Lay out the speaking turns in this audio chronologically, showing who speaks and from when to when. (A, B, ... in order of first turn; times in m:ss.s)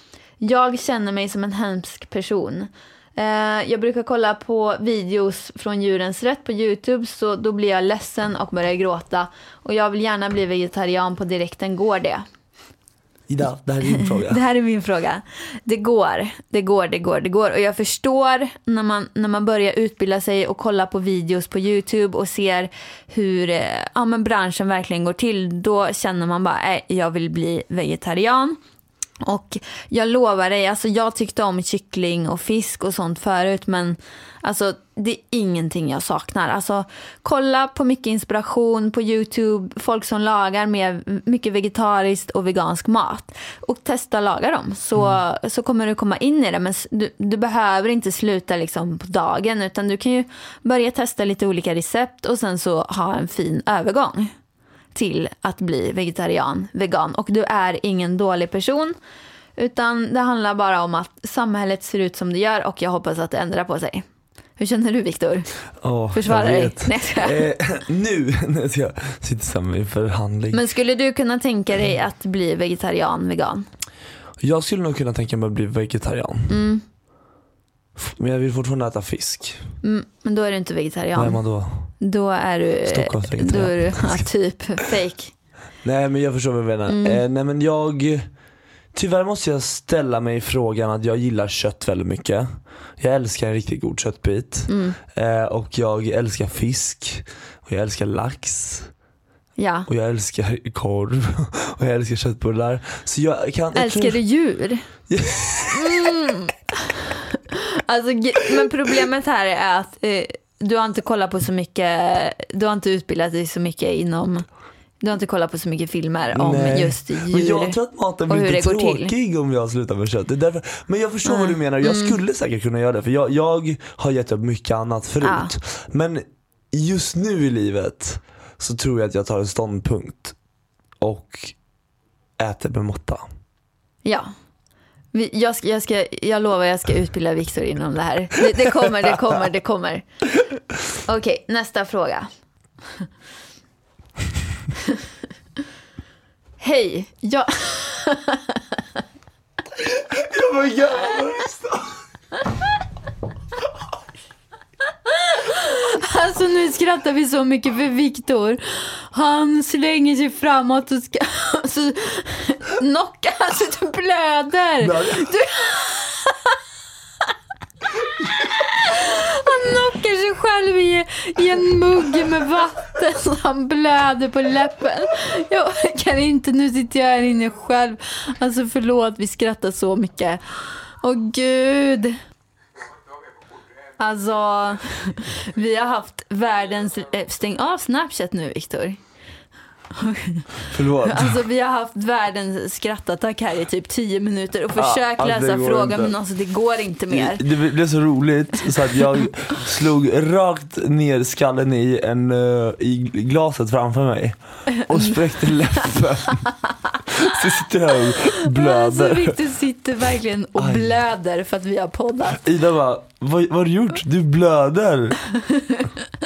0:00.4-0:12.2 A
0:13.3-0:14.4 B
0:13.8-0:28.6 A
0:29.2-0:54.3 A
0:54.9-0:58.9 A
0:59.6-1:04.0 A
1:04.6-1:05.5 A
1:05.8-1:10.6 B
1:06.1-1:07.5 A
1:10.5-1:13.6 A
1:14.4-1:16.6 B
1:16.5-1:16.8 A
1:18.0-1:19.6 B
1:19.8-1:21.4 A
1:21.1-1:21.9 B
1:22.0-1:25.3 A
1:22.8-1:24.2 B
1:25.8-1:28.3 B
1:26.9-1:27.2 A
1:28.9-1:38.9 B
1:34.7-1:35.0 A
1:39.6-1:39.9 A
1:39.9-1:44.2 B
1:43.7-1:44.9 A
1:45.1-1:46.1 B
1:45.7-1:54.4 A
1:55.0-1:59.1 A
1:56.3-2:10.4 B
2:01.2-2:02.2 A
2:05.2-2:05.5 A
2:11.0-2:11.6 B
2:12.4-2:13.2 B
2:15.1-2:20.0 A
2:21.1-2:22.3 A
2:26.6-2:28.8 A
2:29.8-2:31.9 B
2:35.1-2:46.6 A
2:44.8-2:45.3 B
2:48.5-3:00.4 A
3:01.0-3:02.2 A
3:04.0-3:09.0 A
3:09.9-3:17.4 A
3:10.7-3:11.4 B
3:14.7-3:16.2 B
3:17.1-3:26.4 B
3:24.7-3:25.2 A
3:27.1-3:29.4 B
3:28.1-3:32.4 A
3:30.6-3:31.0 B
3:32.4-3:35.2 B
3:35.2-3:36.1 A